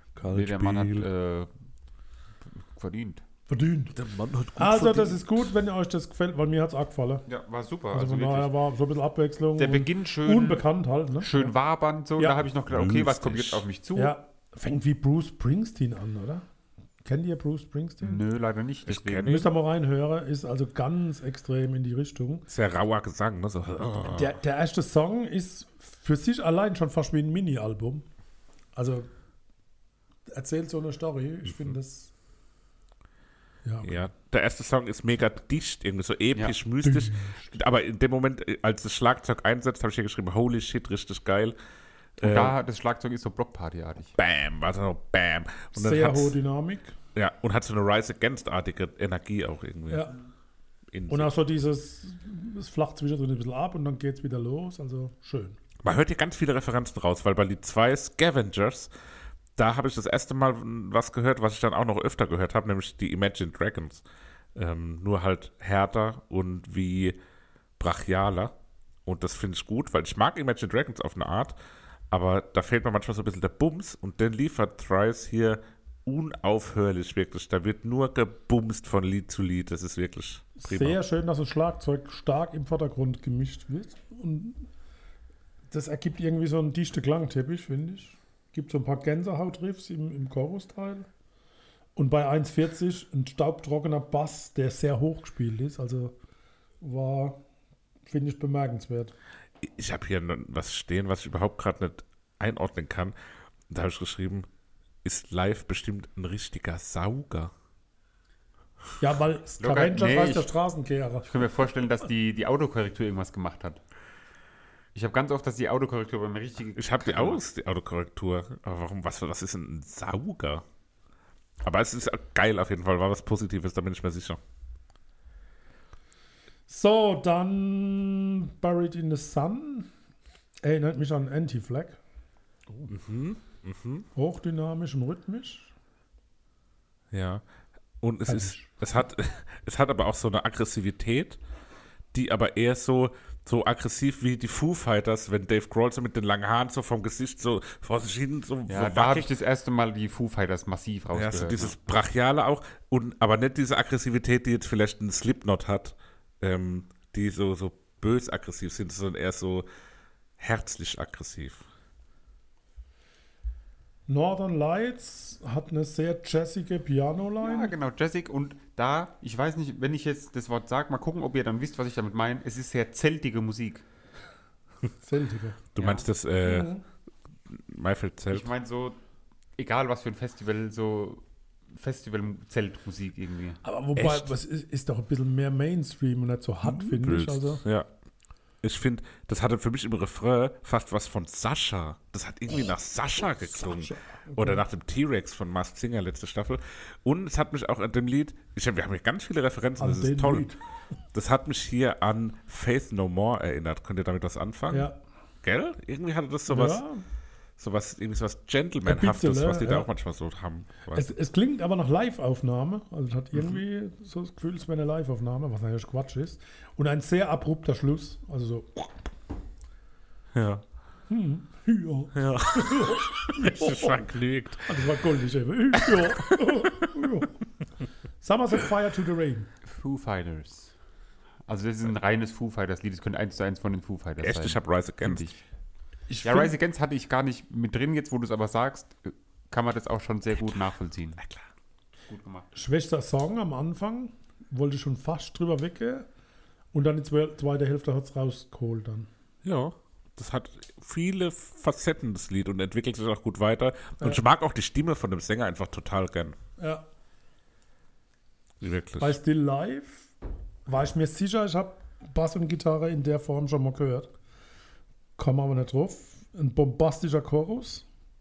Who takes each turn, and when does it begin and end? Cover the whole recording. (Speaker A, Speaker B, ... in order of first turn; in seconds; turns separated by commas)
Speaker A: 0.2-1.1, Speaker B: 0.3-1.5, Speaker B: 2.5-3.2, Speaker C: 3.5-3.9, Speaker A: 3.9-5.5, Speaker C: 4.6-7.2, Speaker B: 7.3-8.5, Speaker C: 7.9-11.5, Speaker B: 9.6-10.6, Speaker B: 11.2-14.2, Speaker A: 12.7-13.6, Speaker C: 13.9-16.4, Speaker C: 17.0-18.2, Speaker B: 18.0-19.3, Speaker A: 18.9-19.5, Speaker C: 19.2-22.5, Speaker A: 22.5-24.4, Speaker C: 24.1-28.1, Speaker C: 28.8-29.1, Speaker C: 30.3-32.1, Speaker A: 31.5-31.8, Speaker C: 33.6-33.9, Speaker A: 33.8-41.6, Speaker C: 36.8-37.6, Speaker A: 42.2-42.5, Speaker B: 42.2-44.1, Speaker A: 44.2-46.4, Speaker C: 45.8-47.0, Speaker A: 47.1-50.1, Speaker A: 50.9-51.3, Speaker C: 51.1-55.6, Speaker A: 55.8-58.9, Speaker A: 59.6-64.0, Speaker A: 64.5-67.2, Speaker A: 67.8-68.5, Speaker A: 69.1-71.6, Speaker A: 72.1-81.0, Speaker C: 80.6-84.7, Speaker C: 85.7-91.1, Speaker C: 92.0-96.2, Speaker C: 96.8-97.4, Speaker C: 98.1-99.1, Speaker A: 99.6-103.2, Speaker A: 103.7-104.5, Speaker A: 105.0-107.5, Speaker C: 109.0-111.3, Speaker B: 109.6-110.5, Speaker B: 111.2-113.8, Speaker B: 115.0-117.4, Speaker A: 116.8-120.6, Speaker A: 121.6-124.4, Speaker C: 126.7-129.9, Speaker C: 130.6-132.0, Speaker A: 132.9-134.1, Speaker C: 134.2-135.7, Speaker A: 137.1-137.4, Speaker A: 138.0-141.4, Speaker C: 138.3-138.7, Speaker A: 142.1-149.3, Speaker B: 148.7-151.8, Speaker A: 151.1-159.7, Speaker A: 160.4-161.6, Speaker C: 164.1-167.7, Speaker B: 167.4-173.8, Speaker C: 175.0-175.6, Speaker A: 175.8-176.7, Speaker B: 175.8-176.1, Speaker C: 176.4-176.8, Speaker A: 177.5-178.5, Speaker B: 178.3-179.0, Speaker B: 179.6-183.6, Speaker C: 183.6-187.6, Speaker A: 184.0-184.3, Speaker A: 186.6-187.9, Speaker A: 188.6-200.5, Speaker C: 193.2-194.6, Speaker C: 199.8-200.6, Speaker A: 201.1-204.9, Speaker C: 204.7-205.0, Speaker A: 205.4-206.8, Speaker C: 206.5-207.0, Speaker A: 207.6-211.1, Speaker C: 208.8-209.9, Speaker C: 210.9-219.0, Speaker A: 213.3-213.6, Speaker A: 220.3-220.6, Speaker C: 221.1-224.1, Speaker A: 222.2-224.9, Speaker C: 224.7-227.3, Speaker A: 225.8-226.4, Speaker C: 228.2-229.5, Speaker B: 229.6-230.7, Speaker B: 231.5-235.4, Speaker A: 234.2-235.2, Speaker C: 236.1-236.5, Speaker B: 236.2-241.2, Speaker A: 241.2-241.4, Speaker B: 242.1-242.5, Speaker C: 242.6-246.1, Speaker C: 246.7-249.1, Speaker A: 249.4-256.4, Speaker C: 256.6-256.8, Speaker A: 258.6-259.2, Speaker C: 259.0-260.1, Speaker C: 260.7-264.1, Speaker C: 265.2-267.9